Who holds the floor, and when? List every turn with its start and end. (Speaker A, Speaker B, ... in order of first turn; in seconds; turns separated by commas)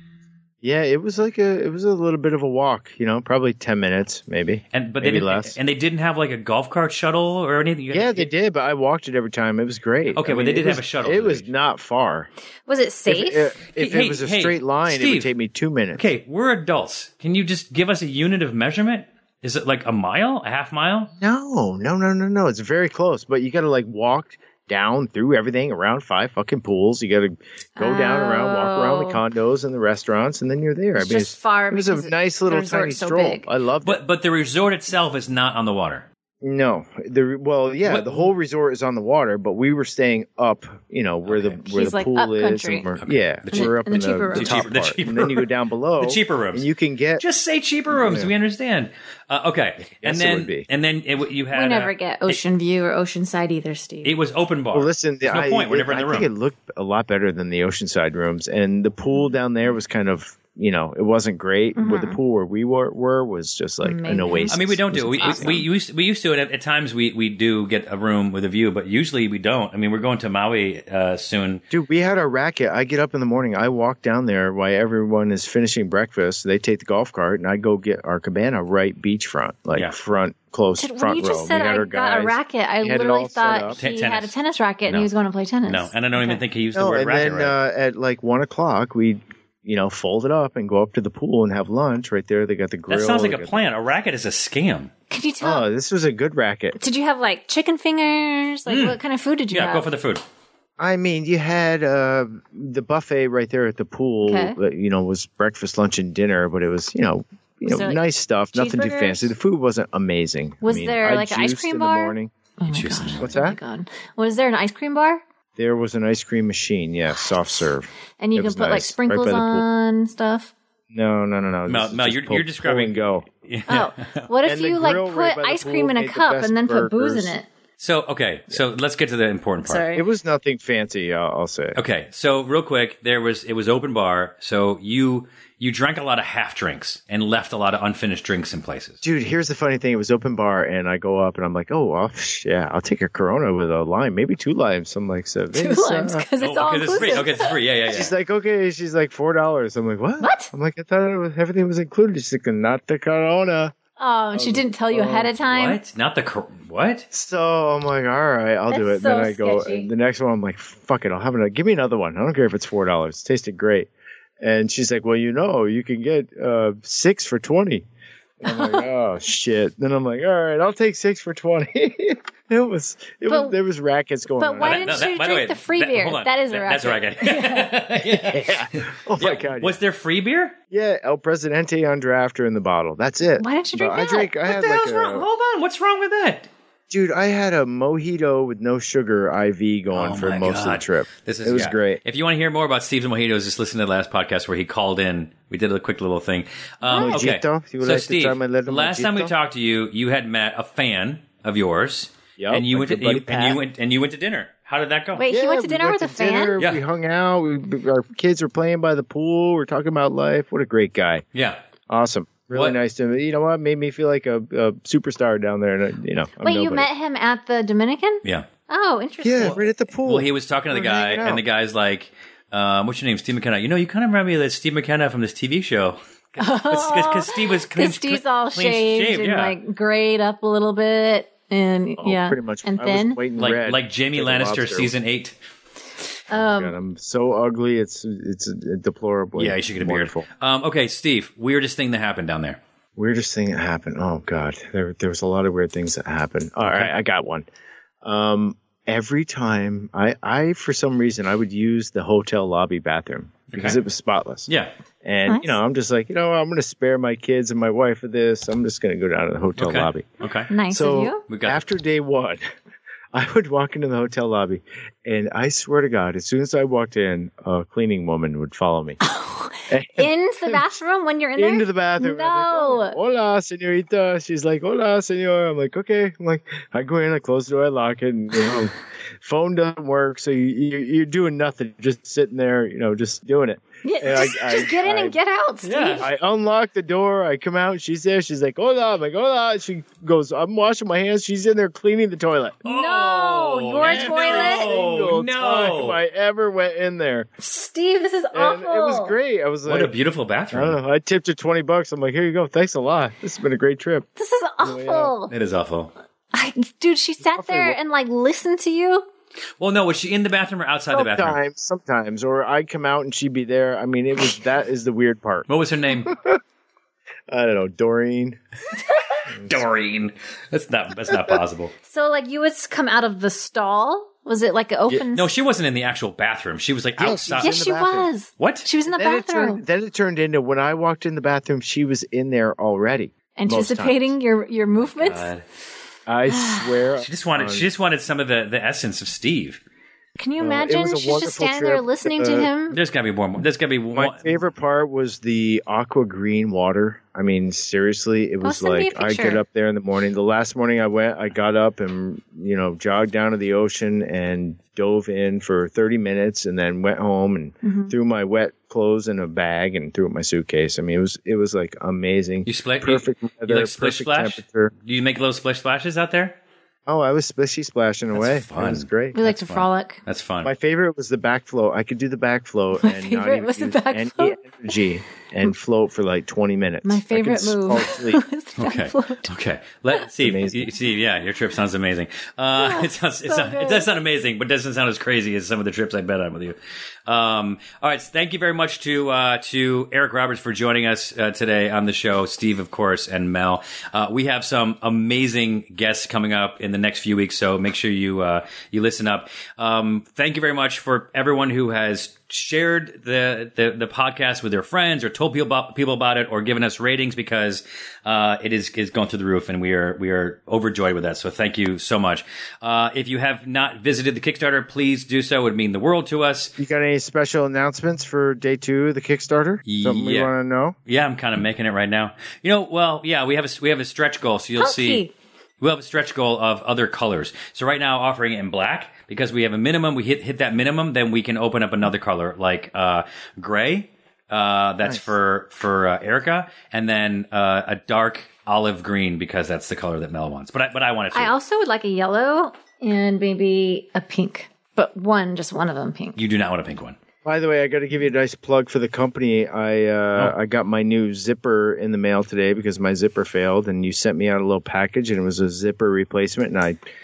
Speaker A: 0.6-5.6, Speaker B: 4.7-8.3, Speaker A: 7.9-12.3, Speaker B: 10.1-11.5, Speaker C: 12.7-13.6, Speaker A: 13.1-16.1, Speaker B: 13.8-15.3, Speaker B: 15.9-21.1, Speaker A: 21.2-34.0, Speaker C: 27.8-29.2, Speaker C: 30.9-33.5, Speaker B: 33.8-36.0, Speaker A: 36.4-47.2, Speaker B: 37.9-38.3, Speaker B: 41.2-42.0, Speaker C: 41.7-42.9, Speaker B: 43.0-43.8, Speaker C: 43.5-44.7, Speaker B: 44.3-45.5, Speaker B: 46.0-46.7, Speaker B: 47.2-52.4, Speaker A: 47.9-48.3, Speaker A: 50.0-50.7, Speaker C: 51.5-54.1, Speaker B: 54.0-56.3, Speaker A: 54.7-65.6, Speaker C: 61.8-62.2, Speaker C: 63.8-65.6, Speaker B: 64.5-71.6, Speaker A: 71.7-83.8, Speaker C: 80.8-86.4, Speaker B: 83.8-84.3, Speaker B: 85.7-87.5, Speaker A: 86.7-93.6, Speaker B: 92.9-94.9, Speaker C: 95.1-95.7, Speaker A: 95.4-96.8, Speaker C: 96.8-99.9, Speaker B: 98.7-99.0, Speaker B: 99.5-100.2, Speaker A: 100.8-112.3, Speaker C: 104.2-104.6, Speaker C: 107.7-108.0, Speaker C: 108.5-109.3, Speaker C: 110.6-115.2, Speaker B: 112.7-113.3, Speaker A: 113.2-113.6, Speaker A: 115.6-119.7, Speaker C: 118.2-120.5, Speaker A: 120.9-123.2, Speaker B: 121.7-124.3, Speaker C: 123.7-127.5, Speaker A: 124.4-127.3, Speaker B: 127.8-129.8, Speaker C: 129.6-130.1, Speaker A: 129.9-131.8, Speaker B: 131.8-139.0, Speaker A: 139.0-146.2, Speaker C: 145.5-147.6, Speaker B: 146.4-148.1, Speaker A: 147.9-153.7, Speaker C: 150.2-150.5, Speaker C: 154.0-155.8, Speaker A: 154.3-155.3, Speaker B: 155.5-157.1, Speaker A: 157.1-163.9, Speaker C: 158.7-159.9, Speaker A: 164.4-167.8, Speaker A: 168.4-175.1, Speaker C: 173.3-173.6, Speaker C: 174.4-177.8, Speaker B: 174.6-180.5, Speaker A: 178.1-179.8, Speaker A: 180.7-185.3, Speaker C: 183.4-184.3, Speaker B: 184.5-186.5, Speaker A: 186.9-192.0, Speaker B: 189.9-205.2, Speaker C: 196.9-197.2, Speaker A: 196.9-199.3, Speaker A: 202.4-203.6, Speaker C: 205.2-206.6, Speaker A: 205.3-211.2, Speaker B: 211.3-211.6, Speaker A: 211.9-216.9, Speaker B: 212.5-212.8, Speaker C: 216.4-219.7, Speaker A: 219.2-221.4, Speaker B: 219.4-229.6, Speaker C: 226.4-233.2, Speaker A: 232.0-234.9, Speaker B: 233.4-235.3, Speaker C: 236.3-236.8, Speaker A: 236.3-240.3, Speaker B: 239.4-242.6, Speaker A: 243.0-247.5, Speaker B: 246.6-246.9, Speaker A: 248.0-254.5, Speaker B: 253.5-253.8, Speaker A: 255.0-260.1, Speaker C: 255.3-255.6, Speaker B: 259.6-260.5, Speaker C: 260.5-261.2, Speaker A: 260.7-262.4, Speaker B: 261.3-261.6, Speaker A: 263.1-269.0, Speaker C: 269.0-273.0, Speaker A: 269.7-270.7, Speaker A: 271.4-285.2, Speaker C: 283.8-286.1, Speaker B: 285.6-286.1, Speaker A: 286.0-292.6, Speaker B: 292.6-296.0, Speaker C: 292.6-294.7, Speaker A: 293.8-297.3, Speaker C: 297.4-299.1, Speaker A: 298.3-299.9, Speaker B: 299.7-300.8, Speaker A: 300.5-304.1, Speaker C: 304.2-305.3, Speaker A: 304.6-305.1, Speaker B: 305.3-305.9, Speaker C: 306.3-309.1, Speaker A: 307.2-307.8, Speaker B: 309.6-311.4, Speaker A: 310.9-315.5, Speaker B: 315.5-316.1, Speaker A: 316.1-316.4, Speaker A: 317.3-318.4, Speaker B: 319.4-321.7, Speaker C: 321.9-325.3, Speaker B: 324.9-327.6, Speaker A: 327.0-328.1, Speaker C: 327.3-329.6, Speaker B: 328.4-328.7, Speaker A: 328.9-334.1, Speaker C: 333.3-335.3, Speaker B: 334.8-335.4, Speaker A: 336.1-337.7, Speaker C: 336.3-336.8, Speaker B: 337.0-339.6, Speaker C: 340.2-342.8, Speaker A: 340.4-342.5, Speaker B: 342.7-344.3, Speaker A: 343.9-364.7, Speaker C: 348.4-349.4, Speaker C: 357.6-357.9, Speaker B: 362.4-366.4, Speaker A: 366.9-369.2, Speaker B: 368.1-370.5, Speaker C: 369.1-370.0, Speaker A: 370.4-378.2, Speaker C: 372.8-374.4, Speaker C: 376.8-379.3, Speaker B: 378.6-386.6, Speaker A: 380.2-380.7, Speaker C: 382.6-383.9, Speaker B: 387.1-416.6, Speaker A: 416.6-420.8, Speaker B: 419.7-420.3, Speaker B: 420.9-425.1, Speaker C: 424.6-425.1, Speaker B: 425.6-441.3, Speaker A: 434.8-435.1, Speaker C: 441.1-446.2, Speaker B: 446.1-447.0, Speaker A: 447.2-456.8